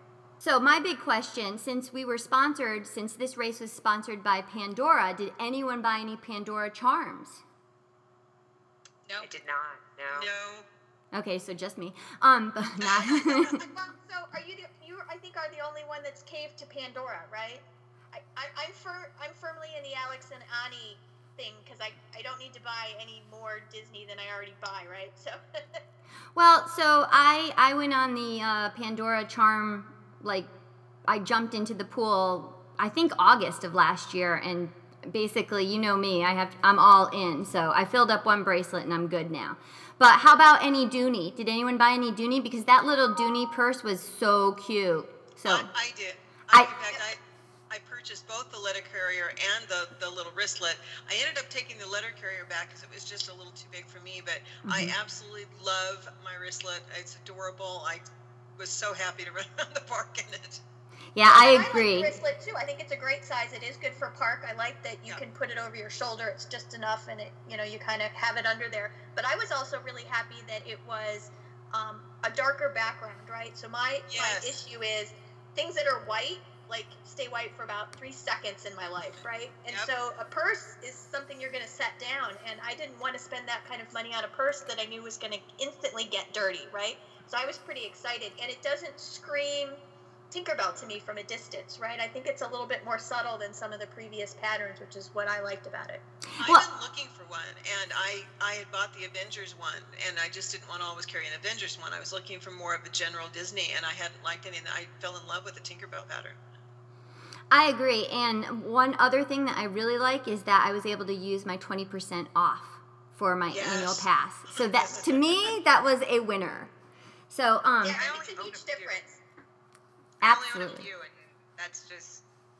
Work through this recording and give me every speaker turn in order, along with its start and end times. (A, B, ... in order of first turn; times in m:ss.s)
0:00.4-0:07.4 A
0:09.2-0:10.3 B
0:10.1-0:10.6 C
0:11.1-0:13.6 A
0:12.9-0:13.5 C
0:13.6-0:25.6 D
0:26.3-0:30.5 A
0:31.0-0:45.7 A
0:45.5-0:58.0 C
0:46.5-0:46.9 A
0:54.6-0:54.9 A
0:58.6-1:00.6 C
1:01.1-1:02.1 A
1:01.2-1:29.8 D
1:14.1-1:14.6 C
1:30.3-1:36.0 D
1:36.4-1:36.6 A
1:36.4-1:46.4 C
1:47.5-1:56.7 A
1:53.5-1:55.5 C
1:57.3-1:58.0 A
1:57.8-1:59.2 D
1:57.8-1:59.0 B
2:00.2-2:02.2 B
2:00.2-2:00.9 A